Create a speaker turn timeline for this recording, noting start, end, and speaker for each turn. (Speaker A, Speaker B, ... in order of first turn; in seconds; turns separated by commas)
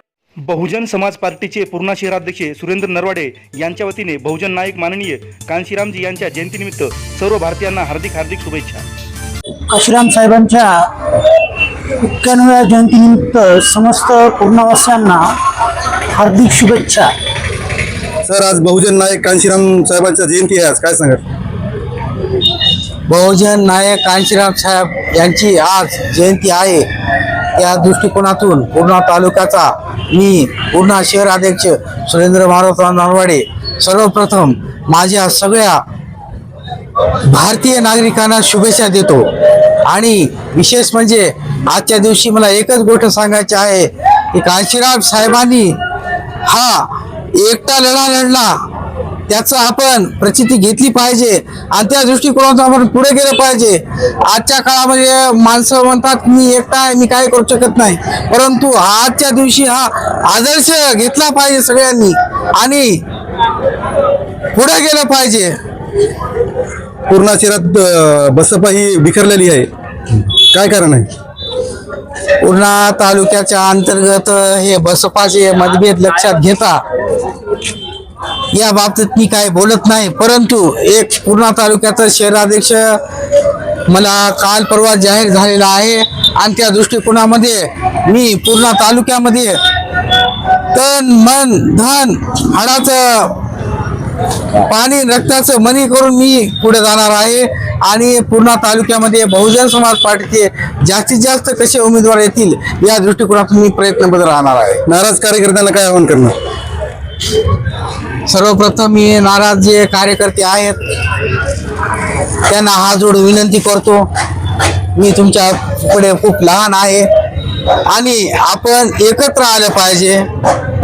Speaker A: 0.4-8.8, Speaker B: 9.7-10.8, Speaker B: 12.0-15.3, Speaker B: 16.1-17.1, Speaker C: 18.2-21.2, Speaker D: 23.1-26.8, Speaker D: 27.6-35.8, Speaker D: 37.3-39.3, Speaker D: 39.9-45.7, Speaker D: 46.5-48.5, Speaker D: 49.3-63.0, Speaker D: 64.5-65.5, Speaker C: 67.1-69.7, Speaker C: 70.4-71.1, Speaker D: 72.4-76.8, Speaker D: 78.5-83.0, Speaker D: 83.9-89.6, Speaker D: 90.7-93.4, Speaker D: 94.6-104.8, Speaker C: 104.9-106.3, Speaker D: 108.3-110.8, Speaker D: 112.5-114.0, Speaker D: 114.9-117.1, Speaker D: 117.8-120.3